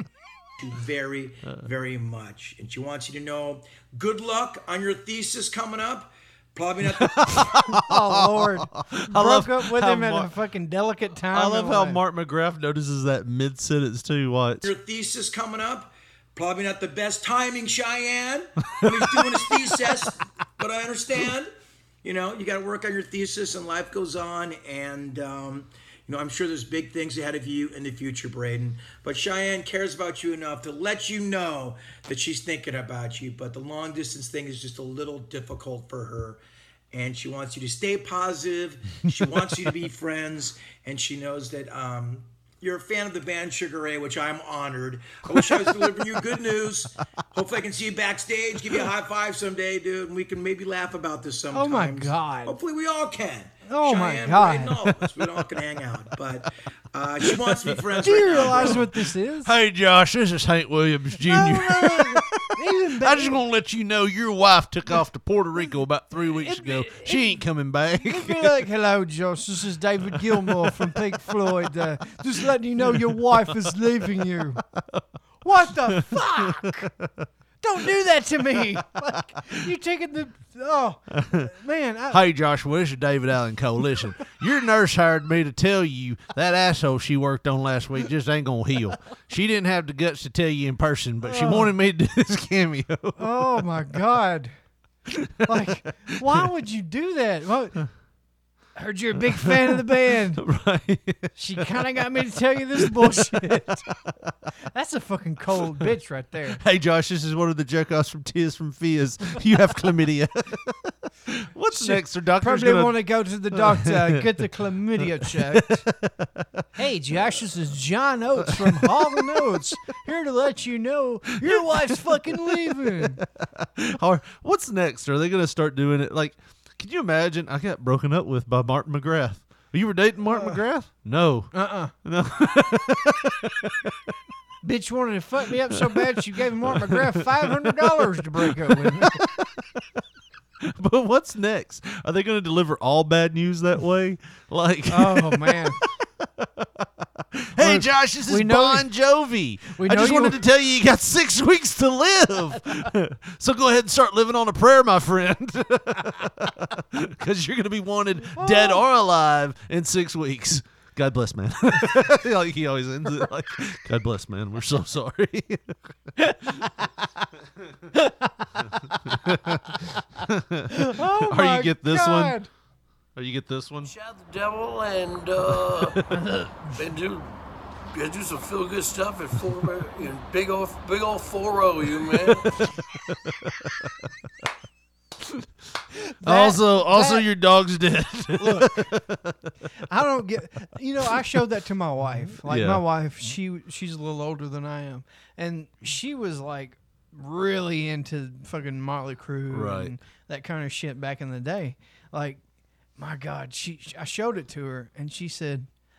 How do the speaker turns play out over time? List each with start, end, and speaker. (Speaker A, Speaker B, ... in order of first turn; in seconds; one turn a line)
Speaker A: 0.6-7.2
Speaker B: 6.8-10.3
Speaker C: 7.5-12.0
Speaker B: 11.3-14.7
Speaker A: 14.6-21.5
Speaker B: 18.8-19.9
Speaker A: 22.0-36.4
Speaker A: 36.9-58.9
Speaker B: 39.1-39.5
Speaker B: 45.3-46.0
Speaker C: 51.5-52.6
Speaker C: 53.7-54.9
Speaker B: 57.2-68.7
Speaker C: 58.0-59.5
Speaker C: 61.2-63.4
Speaker C: 66.2-67.4
Speaker C: 68.0-74.6
Speaker B: 70.0-71.7
Speaker B: 72.4-73.6
Speaker B: 74.2-75.0
Speaker C: 75.4-76.9
Speaker B: 75.6-77.3
Speaker C: 77.6-82.2
Speaker B: 78.6-78.8
Speaker B: 81.2-81.5
Speaker B: 82.1-93.6
Speaker C: 91.2-91.7
Speaker C: 93.2-94.5
Speaker B: 95.1-96.5
Speaker C: 95.5-97.8
Speaker C: 98.8-100.4
Speaker B: 99.2-102.0
Speaker C: 101.4-103.9
Speaker B: 102.7-103.9
Speaker C: 104.7-106.6
Speaker B: 105.6-105.9
Speaker B: 106.5-116.7
Speaker C: 111.7-115.8
Speaker C: 116.8-123.2
Speaker B: 118.4-119.6
Speaker B: 121.4-134.1
Speaker C: 130.3-130.6
Speaker C: 131.5-131.9
Speaker C: 134.6-139.2
Speaker B: 135.5-140.0
Speaker B: 140.6-165.7
Speaker C: 144.9-145.8
Speaker C: 147.6-148.9
Speaker C: 149.7-150.4
Speaker C: 158.4-158.8
Speaker C: 166.2-166.7
Speaker C: 167.9-168.5
Speaker B: 168.8-172.4
Speaker C: 170.7-172.5
Speaker B: 173.2-173.9
Speaker D: 173.8-176.1
Speaker C: 176.1-176.8
Speaker D: 176.8-177.3
Speaker D: 177.9-182.5
Speaker B: 182.1-184.1
Speaker C: 186.1-187.2
Speaker B: 186.2-189.5
Speaker C: 188.4-188.9
Speaker C: 189.9-202.4
Speaker B: 191.0-191.4
Speaker B: 192.3-192.8
Speaker B: 199.5-199.9
Speaker C: 203.0-205.7